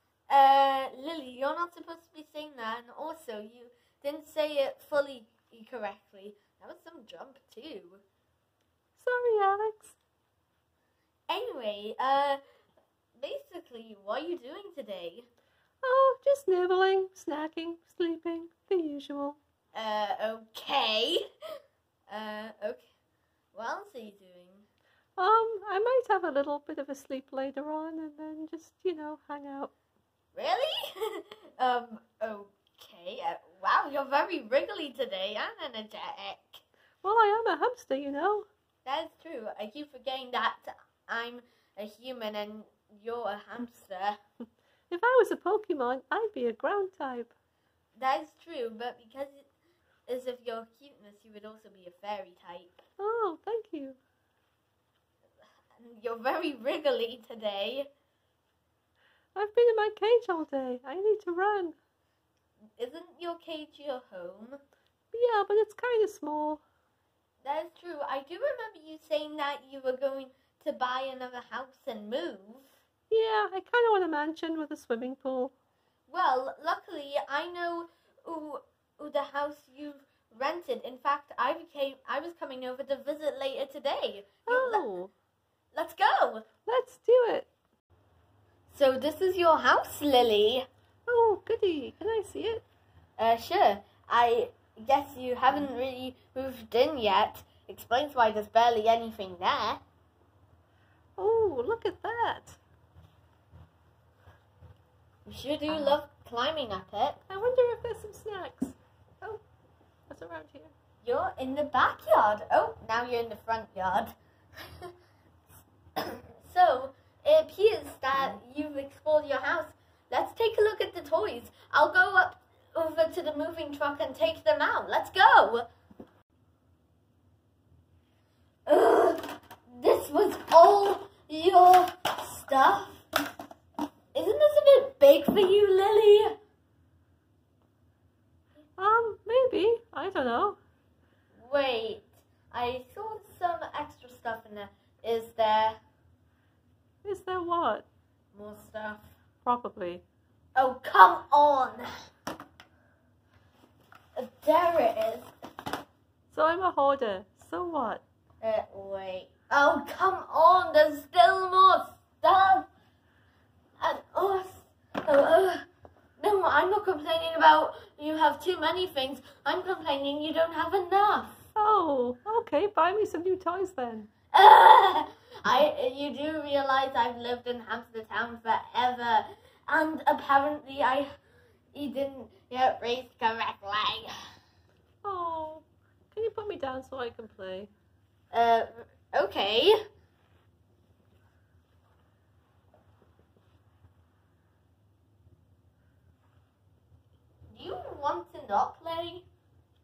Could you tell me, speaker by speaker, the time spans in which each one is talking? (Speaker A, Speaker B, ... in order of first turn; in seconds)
Speaker A: 0.3-8.0, 11.3-12.4, 13.2-15.3, 19.7-21.2, 22.1-22.9, 23.5-24.6, 30.3-36.6, 38.8-44.2, 48.0-49.5, 50.1-52.8, 55.8-57.9, 62.8-64.6, 67.4-72.8, 76.1-84.8, 85.7-86.5, 88.7-90.7, 93.2-99.8, 105.2-107.2, 111.0-114.1, 116.0-125.7, 128.7-133.1, 134.1-136.4, 141.3-145.8, 148.3-149.1, 150.6-151.9, 154.2-155.3, 158.4-162.7, 163.8-165.7, 166.2-171.4, 174.3-181.1, 181.7-184.1, 188.3-189.8, 197.5-199.3
Speaker B: 9.0-9.9, 15.8-19.4, 25.2-29.7, 37.0-38.5, 44.9-47.3, 53.0-54.0, 59.3-61.8, 65.1-66.6, 73.1-75.5, 84.5-85.1, 86.7-87.5, 91.0-92.6, 101.2-102.6, 105.7-106.0, 107.3-108.8, 110.1-110.7, 138.8-140.6, 147.0-147.8, 149.4-150.0, 156.3-158.0, 171.6-174.1, 185.0-187.7